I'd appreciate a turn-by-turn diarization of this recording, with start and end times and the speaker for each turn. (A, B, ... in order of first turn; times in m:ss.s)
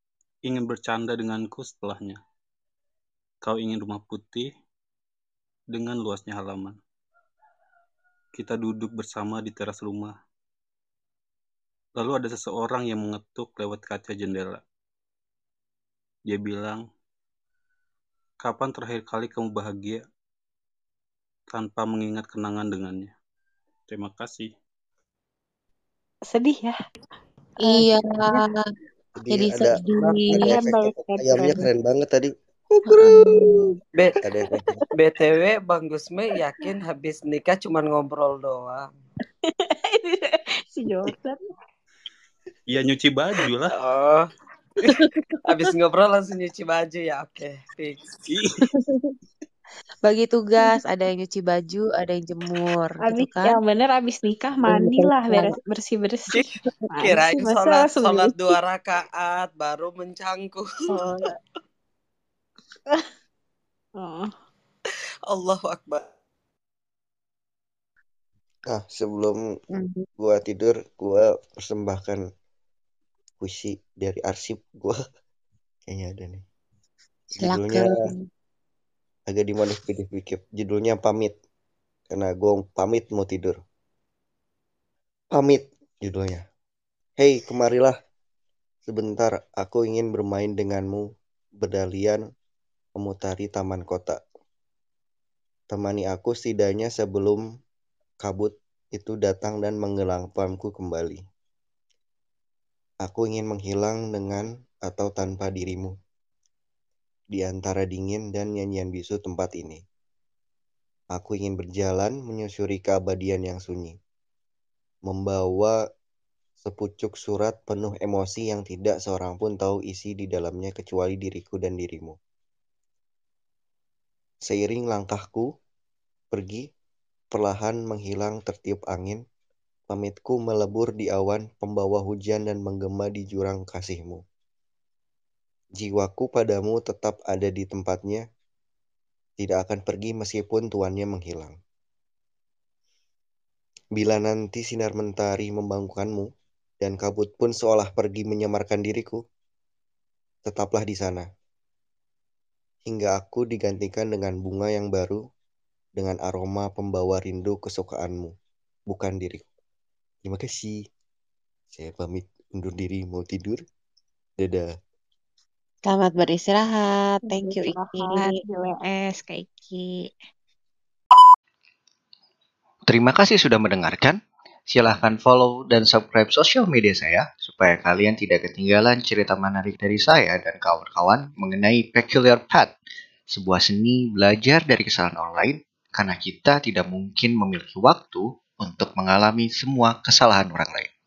0:00.4-0:02.2 A
0:03.4-0:04.5 A
0:05.7-0:06.8 A
0:08.4-0:10.1 A
0:12.0-0:14.6 A
0:16.3-0:16.8 A
0:18.4-0:20.0 A
0:21.5-0:23.1 A
0:23.9-0:24.5 A
0:26.3-0:26.7 B
0:27.6-0:28.4 B
0:27.6-0:28.6 C
0:29.2-0:33.7 D
0:29.3-0:30.6 C
0:30.3-0:31.7 B
0:32.9-0:33.5 C
0:33.1-0:33.5 B
0:33.9-0:34.2 E
0:34.2-0:34.8 D
0:34.9-0:38.9 E
0:39.5-0:41.4 B
0:42.7-0:43.7 A
0:43.7-0:44.3 E
0:44.9-0:48.2 E
0:45.0-0:45.4 C
0:48.7-0:49.1 C
0:50.0-0:53.6 C
0:53.0-0:58.4 B
0:54.6-0:55.6 C
0:57.0-1:00.7 E
1:00.9-1:01.4 B
1:04.0-1:04.3 B
1:05.3-1:06.1 E
1:08.7-1:09.4 D
1:09.7-1:10.1 C
1:10.2-1:12.2 D
1:13.4-1:15.0 D
1:15.9-1:16.4 D
1:17.4-1:18.2 C
1:17.4-1:18.1 D
1:19.3-1:21.4 D
1:22.1-1:23.6 D
1:25.3-1:26.4 D
1:27.2-1:28.0 D
1:28.9-1:32.2 D
1:33.0-1:34.2 D
1:35.7-1:37.4 D
1:38.2-1:41.2 D
1:43.0-1:46.0 D
1:47.3-1:49.8 D
1:51.1-1:54.0 D
1:55.1-1:55.8 D
1:56.6-2:02.2 D
2:04.4-2:05.5 D
2:06.3-2:06.7 D
2:07.3-2:09.2 D
2:09.9-2:14.2 D
2:15.8-2:18.2 D
2:19.4-2:21.6 D
2:24.0-2:26.3 D
2:26.8-2:29.2 D
2:30.4-2:31.3 D
2:32.9-2:35.2 D
2:36.0-2:38.3 D
2:38.9-2:39.4 D
2:40.2-2:40.8 D
2:41.7-2:43.6 D
2:44.4-2:44.7 D
2:45.9-2:48.4 C
2:47.3-2:50.1 B
2:52.9-3:02.7 F
3:03.3-3:10.9 F